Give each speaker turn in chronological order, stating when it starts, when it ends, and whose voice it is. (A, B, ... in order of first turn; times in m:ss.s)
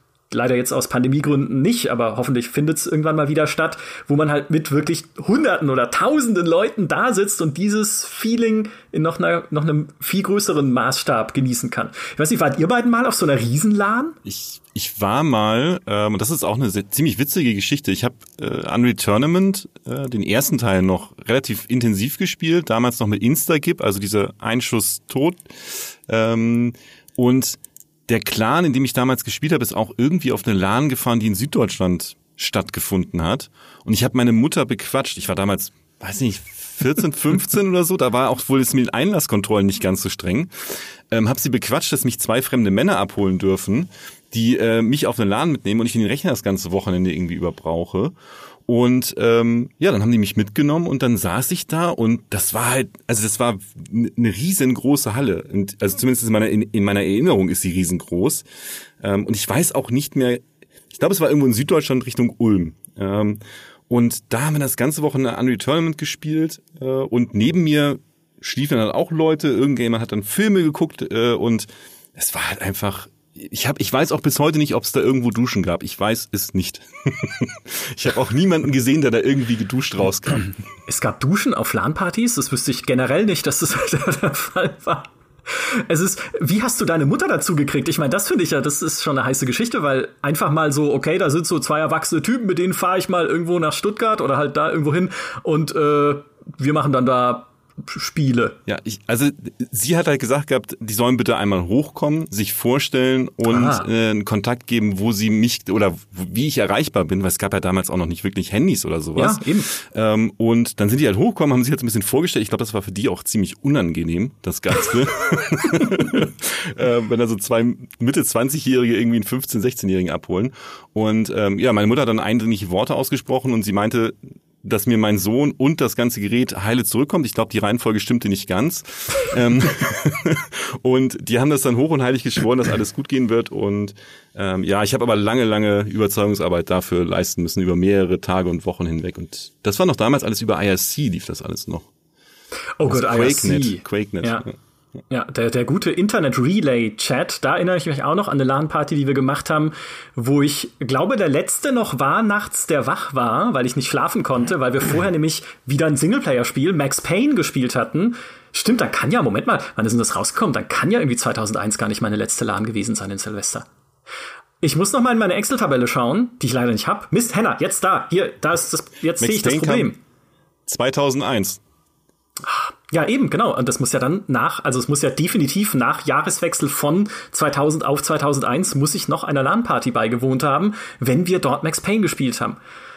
0:00.3-0:14.2 A
0:14.2-0:40.5 B
0:41.1-0:48.1 B
0:48.7-0:58.4 B
0:59.0-1:20.5 B
1:20.9-1:38.6 A
1:38.7-2:21.9 B
1:43.5-1:43.9 A
1:49.2-1:49.7 A
2:22.8-2:24.4 A
2:22.9-2:24.5 B
2:25.1-2:43.7 A
2:44.6-2:50.0 A
2:49.2-2:49.9 B
2:50.7-2:51.6 B
2:52.5-3:02.6 A